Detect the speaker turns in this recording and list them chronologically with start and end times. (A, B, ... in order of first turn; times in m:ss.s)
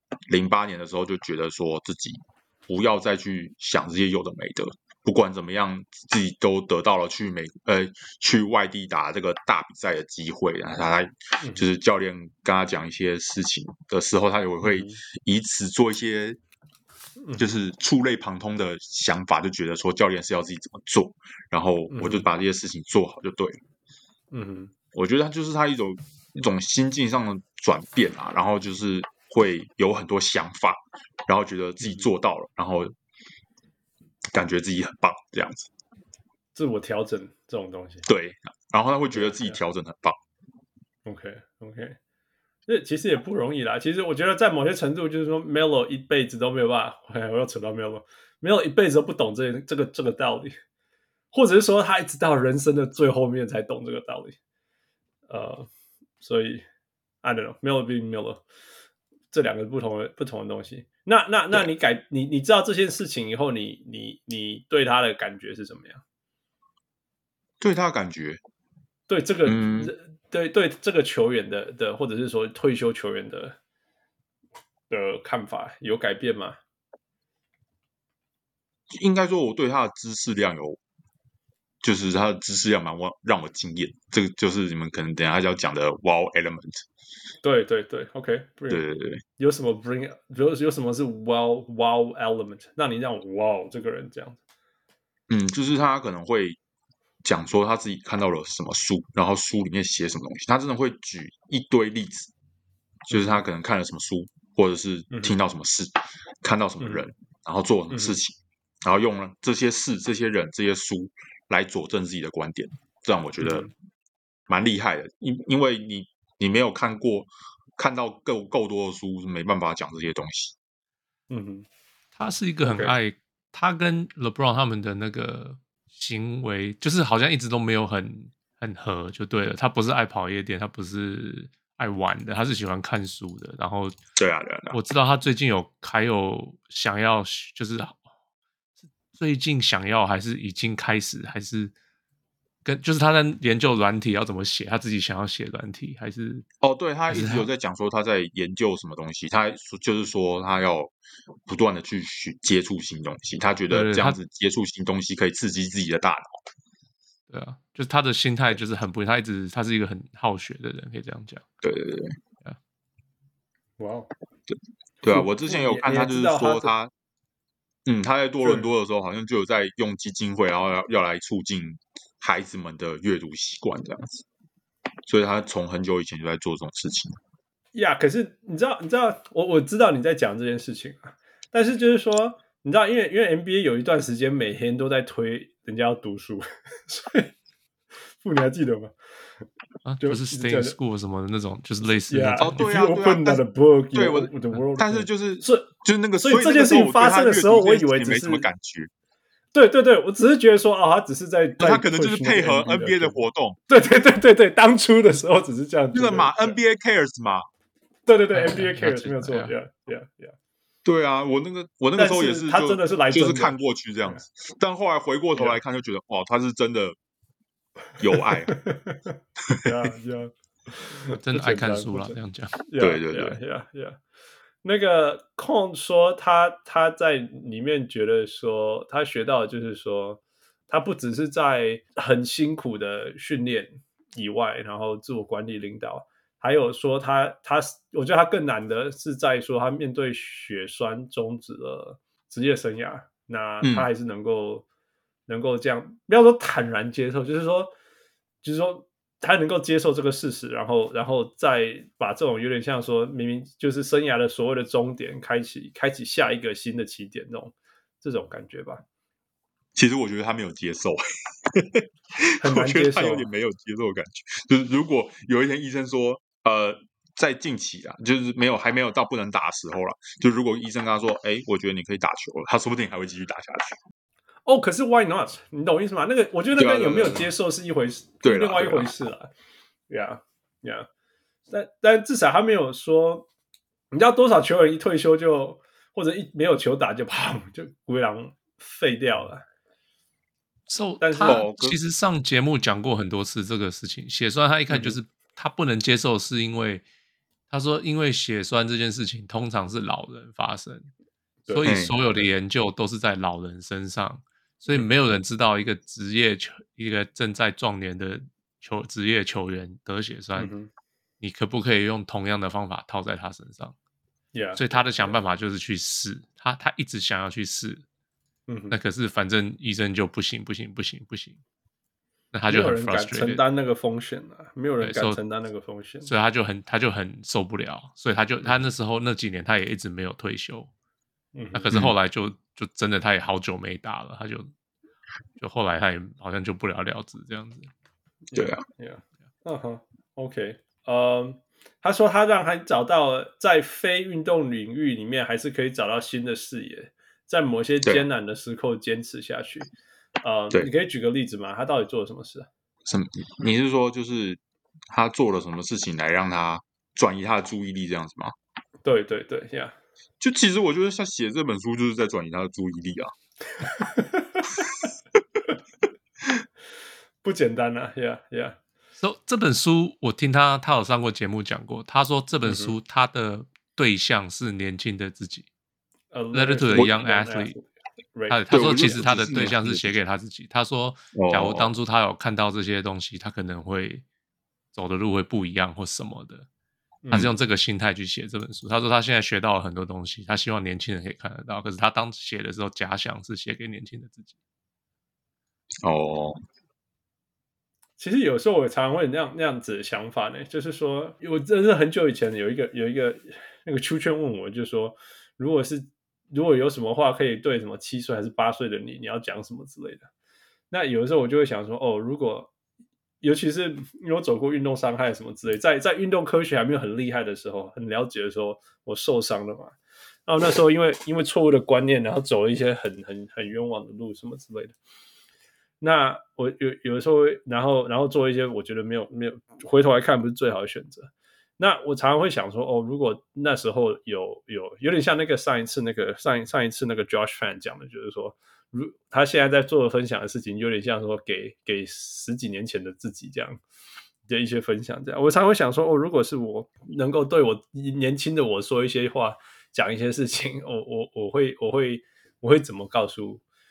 0:00.3-0:16.4 A
0:14.6-0:15.0 B
0:17.2-0:17.5 B
0:17.4-0:23.6 A
0:21.9-0:22.3 B
0:24.3-0:24.7 B
0:24.9-0:33.0 A
0:34.3-0:35.7 A
0:36.6-0:38.1 B
0:38.1-0:40.2 A
0:39.1-0:39.6 B
0:41.0-0:42.0 B
0:42.7-0:50.6 B
0:51.3-0:54.4 B
0:55.3-0:55.7 B
0:56.2-0:56.6 B
0:57.2-0:58.4 B
0:59.3-1:06.0 B
1:07.6-1:08.4 A
1:09.1-1:13.6 B
1:09.5-1:09.9 A
1:14.9-1:16.6 B
1:18.9-1:20.8 A
1:21.8-1:26.8 A
1:27.4-1:28.8 B
1:28.7-1:29.2 A
1:29.4-1:34.4 B
1:35.3-1:36.6 A
1:37.2-1:42.3 A
1:43.1-1:53.7 A
1:43.1-1:43.4 B
1:45.1-1:45.4 B
1:47.9-1:48.2 B
1:53.4-1:53.7 B
1:54.5-2:00.6 A
2:01.3-2:01.7 B
2:02.2-2:14.0 C
2:02.6-2:03.0 B
2:14.2-2:14.8 A
2:14.7-2:18.0 C
2:19.1-2:21.7 C
2:22.6-2:26.5 C
2:26.6-2:30.9 A
2:27.1-2:27.5 C
2:31.5-2:36.4 A
2:33.7-2:34.2 C
2:37.3-2:41.4 C
2:41.6-2:42.2 A
2:43.8-2:44.1 B
2:44.5-2:46.9 A
2:45.1-2:46.7 B
2:47.8-2:54.2 A
2:48.4-2:48.7 B
2:55.1-2:57.2 A
2:57.7-3:07.3 B
3:08.2-3:08.9 B
3:09.8-3:12.6 C
3:10.0-3:10.8 B
3:12.1-3:18.5 B
3:12.4-3:13.4 A
3:13.9-3:18.9 A
3:19.5-3:26.6 B
3:21.6-3:23.6 A
3:25.9-3:27.5 A
3:28.1-3:30.4 B
3:28.3-3:29.5 C
3:30.8-3:37.0 A
3:32.0-3:34.2 B
3:38.0-3:38.6 A
3:38.5-3:44.0 B
3:39.4-3:39.7 A
3:41.2-3:42.6 C
3:42.8-3:43.4 A
3:44.6-4:04.7 B
4:03.6-4:03.9 A
4:05.3-4:07.7 B
4:08.4-4:18.8 B
4:19.8-4:21.8 A
4:22.4-4:33.8 A
4:22.4-4:23.3 B
4:34.5-4:39.3 B
4:36.6-4:37.3 A
4:38.2-4:38.9 A
4:39.9-4:40.9 B
4:41.5-4:43.3 B
4:43.9-4:49.4 B
4:50.7-4:56.8 C
4:51.0-4:51.4 B
4:51.2-4:51.8 A
4:54.7-4:55.0 B
4:57.5-5:00.9 C
5:01.5-5:02.3 B
5:01.5-5:10.5 C
5:01.6-5:02.0 A
5:10.4-5:10.7 B
5:11.2-5:13.8 C
5:14.3-5:15.2 B
5:14.6-5:17.8 C
5:18.5-5:18.8 B
5:18.7-5:21.4 C
5:22.3-5:23.4 C
5:22.5-5:26.1 B
5:24.8-5:25.2 C
5:26.0-5:30.7 C
5:31.4-5:31.8 B
5:31.5-5:34.5 C
5:35.4-5:37.7 C
5:38.3-5:49.7 B
5:38.4-5:38.6 A
5:50.2-5:52.5 B
5:52.9-5:58.3 A
5:58.8-5:59.8 B
6:00.2-6:03.1 A
6:03.7-6:04.4 B
6:07.2-6:08.6 B
6:09.0-6:15.5 C
6:12.4-6:12.8 B
6:16.1-6:18.4 B
6:16.3-6:17.6 C
6:18.3-6:24.0 C
6:18.5-6:20.0 A
6:21.2-6:21.7 A
6:24.7-6:26.5 C
6:27.0-6:27.3 B
6:27.1-6:34.4 C
6:35.8-6:36.4 A
6:38.0-6:50.1 B
6:50.7-6:52.5 B
6:53.2-6:59.8 B
7:00.3-7:04.8 B
7:05.8-7:23.6 B
7:24.3-7:33.4 B